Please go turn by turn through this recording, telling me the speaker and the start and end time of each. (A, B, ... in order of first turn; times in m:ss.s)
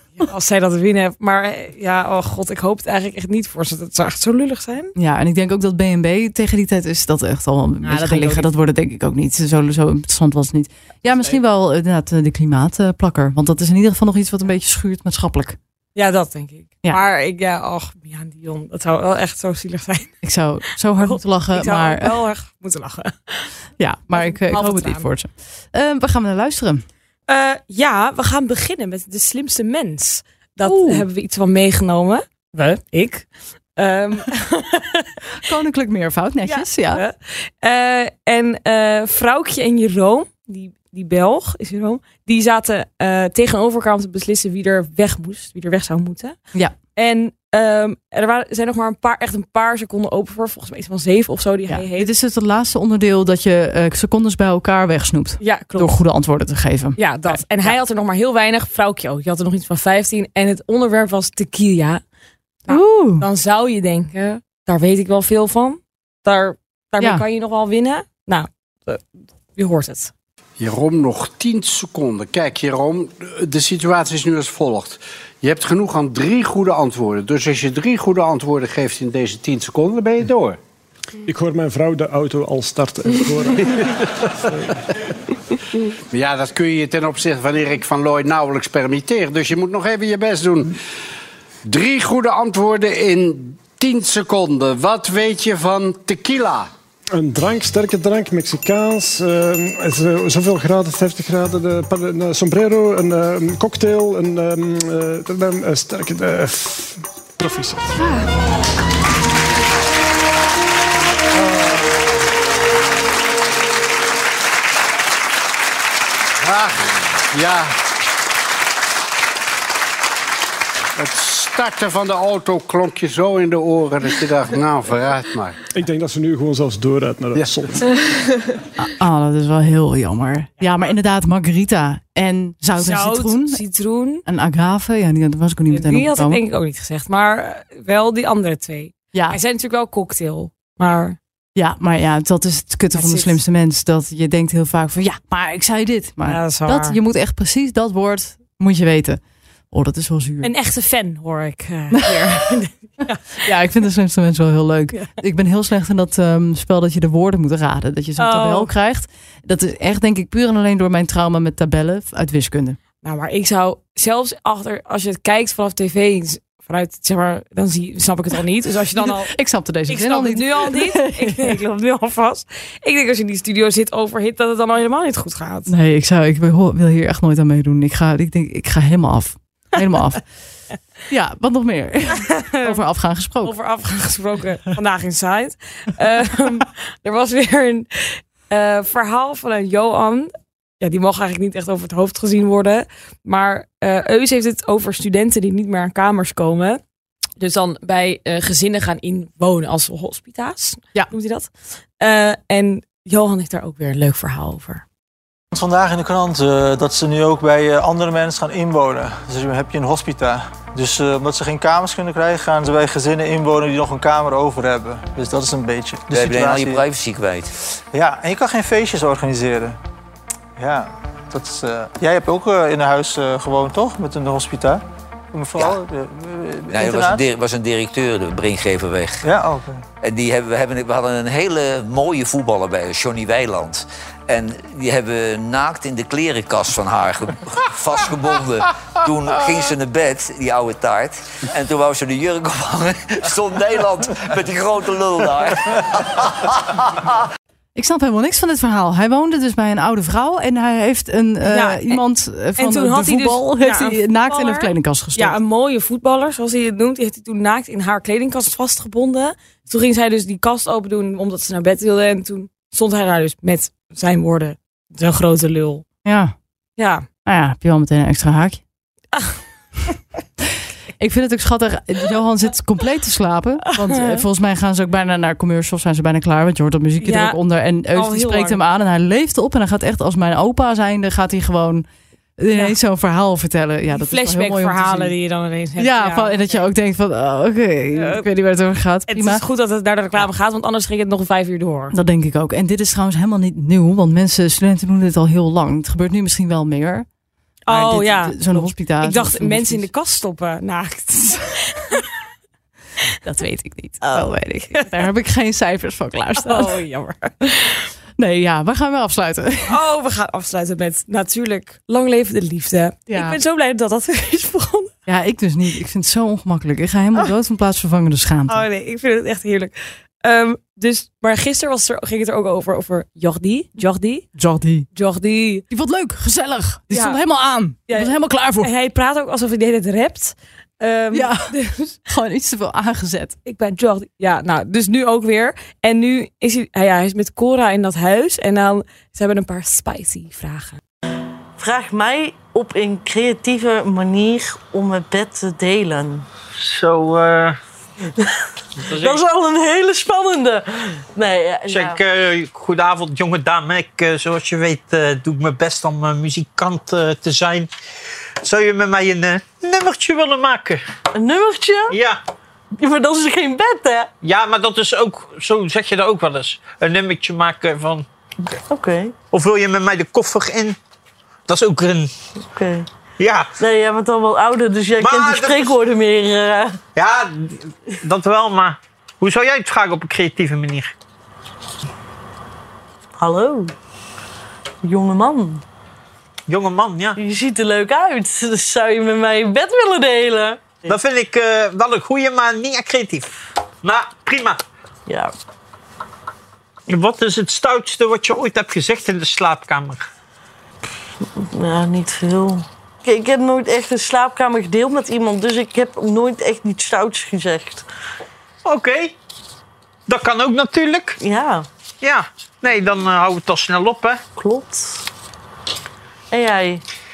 0:00.2-0:04.9 A
0:05.0-0:15.6 B
0:07.8-0:08.5 A
0:11.1-0:11.4 A
0:15.9-0:20.2 A
0:20.2-0:22.2 B
0:21.0-0:23.5 A
0:23.8-0:26.8 B
0:24.1-0:25.0 A
0:27.3-0:35.1 A
0:30.6-0:31.0 B
0:35.4-0:37.0 B
0:36.4-0:46.4 A
0:47.0-0:52.1 A
0:51.7-0:57.8 B
0:55.4-0:56.0 A
0:57.0-1:02.0 A
1:02.7-1:10.1 A
1:02.7-1:03.2 B
1:10.6-1:20.6 C
1:21.2-1:24.7 D
1:26.1-1:30.7 C
1:31.6-1:36.7 C
1:37.1-1:48.0 D
1:56.4-1:57.7 C
2:01.0-2:05.6 C
2:05.7-2:07.8 D
2:07.3-2:07.6 C
2:08.8-2:13.6 B
2:12.8-2:14.2 A
2:14.2-2:16.4 B
2:15.7-2:21.2 A
2:19.1-2:19.4 B
2:21.6-2:29.2 B
2:22.9-2:23.4 A
2:26.2-2:27.0 A
2:29.7-2:30.5 B
2:30.4-2:33.4 A
2:33.4-2:42.8 B
2:38.2-2:38.7 A
2:43.0-2:55.7 A
2:49.0-2:51.5 B
2:55.7-3:00.2 B
3:01.1-3:03.5 B
3:02.1-3:02.8 A
3:03.4-3:16.8 A
3:17.4-3:24.8 A
3:25.5-3:36.8 E
3:36.1-3:37.5 F
3:37.9-3:39.8 E
3:40.6-3:47.2 E
3:46.7-3:49.2 F
3:49.2-3:49.8 E
3:50.0-4:06.8 F
4:07.7-4:15.4 B
4:11.4-4:12.0 A
4:12.6-4:25.8 A
4:26.0-4:26.3 B
4:26.8-4:27.0 A
4:27.2-4:28.6 B
4:31.0-4:41.8 B
4:37.0-4:37.4 A
4:37.9-4:38.6 A
4:42.4-4:45.1 B
4:42.5-4:42.8 A
4:43.9-4:46.7 A
4:45.8-4:49.4 B
4:47.9-4:48.2 A
4:49.1-4:51.9 A
4:51.9-4:57.0 B
4:57.7-5:02.1 A
4:57.7-4:59.9 B
5:03.2-5:06.7 B
5:04.0-5:04.9 A
5:06.4-5:07.9 A
5:08.2-5:09.8 B
5:09.6-5:14.9 A
5:13.1-5:13.4 B
5:15.0-5:18.6 B
5:18.5-5:24.3 A
5:24.4-5:24.9 B
5:24.9-5:25.6 A
5:25.7-5:28.7 B
5:26.9-5:27.2 A
5:27.9-5:32.0 A
5:31.1-5:31.5 B
5:32.0-5:33.3 B
5:33.4-5:40.8 A
5:41.6-5:46.2 G
5:46.6-5:47.6 H
5:48.9-5:52.0 G
5:51.7-5:57.7 H
5:58.4-6:00.8 H
6:01.1-6:02.0 G
6:01.9-6:02.2 H
6:02.8-6:04.1 G
6:04.2-6:08.0 H
6:08.7-6:09.1 G
6:09.3-6:10.8 H
6:11.5-6:12.1 H
6:12.5-6:12.9 G
6:13.2-6:13.5 H
6:13.6-6:16.8 G
6:15.0-6:15.7 H
6:17.0-6:20.9 H
6:23.2-6:23.7 G
6:24.8-6:25.6 G
6:26.5-6:27.1 H
6:27.2-6:31.0 G
6:30.9-6:34.6 H
6:35.1-6:35.3 G
6:36.9-6:40.1 H
6:41.4-6:47.8 G
6:48.6-6:49.1 H
6:50.1-6:51.1 H
6:51.2-6:51.7 G
6:52.0-6:54.2 H
6:54.4-6:55.0 G
6:56.3-6:56.8 G